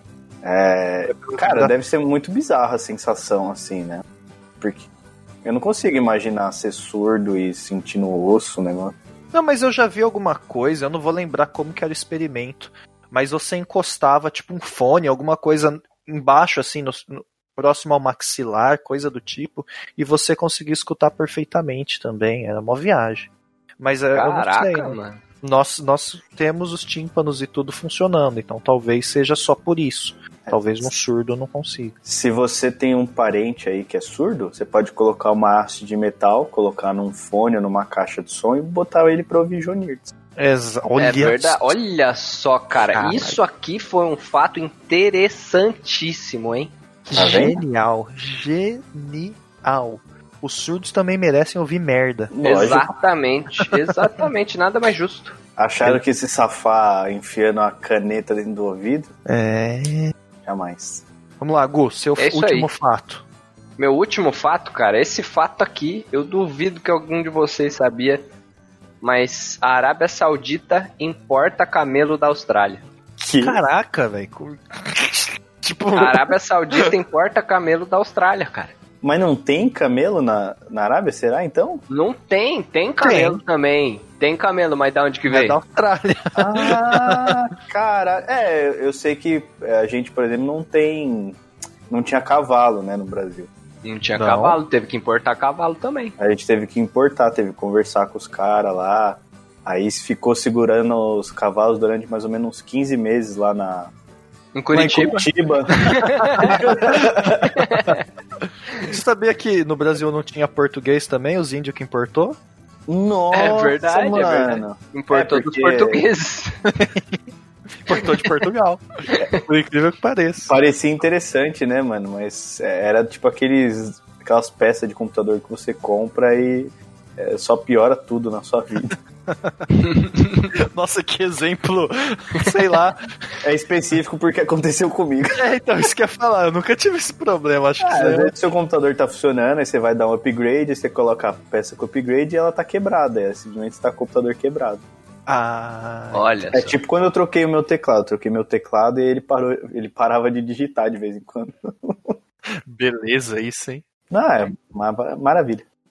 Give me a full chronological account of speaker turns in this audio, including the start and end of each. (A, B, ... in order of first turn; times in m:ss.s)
0:00.4-0:04.0 A
0:01.1-0:01.7 B
0:04.6-0:04.9 A
0:05.4-0:09.0 A
0:09.3-0:32.0 B
0:24.1-0:25.2 C
0:30.4-0:30.9 A
0:32.0-0:40.1 A
0:40.4-0:41.8 B
0:41.0-0:46.7 C
0:42.9-0:43.4 B
0:47.1-0:52.3 B
0:47.2-0:47.6 A
0:52.3-0:52.9 A
0:52.4-0:55.4 C
0:55.6-0:59.1 A
0:59.3-1:00.2 B
1:00.4-1:01.0 A
1:01.4-1:03.2 B
1:02.2-1:02.7 C
1:03.8-1:08.2 C
1:09.0-1:12.8 C
1:13.2-1:13.6 A
1:13.4-1:16.3 B
1:16.0-1:18.8 C
1:19.0-1:21.8 A
1:21.9-1:25.6 C
1:23.0-1:23.4 B
1:25.3-1:27.4 B
1:26.4-1:33.5 A
1:33.8-1:36.2 C
1:34.2-1:34.6 B
1:36.2-1:43.9 A
1:44.6-1:46.7 C
1:44.7-1:45.9 A
1:46.4-1:47.4 B
1:46.4-1:47.6 A
1:47.5-1:48.0 C
1:48.8-1:52.4 B
1:52.9-1:56.0 A
1:53.3-1:56.6 C
1:56.7-1:57.2 B
1:57.8-2:00.5 B
1:59.1-1:59.4 C
2:00.5-2:09.0 A
2:09.3-2:09.7 B
2:09.8-2:10.5 C
2:10.7-2:13.0 B
2:13.4-2:15.4 A
2:15.3-2:18.3 B
2:17.8-2:24.8 A
2:25.3-2:26.3 B
2:26.1-2:26.8 C
2:26.5-2:32.2 A
2:32.7-2:33.8 B
2:34.1-2:35.7 A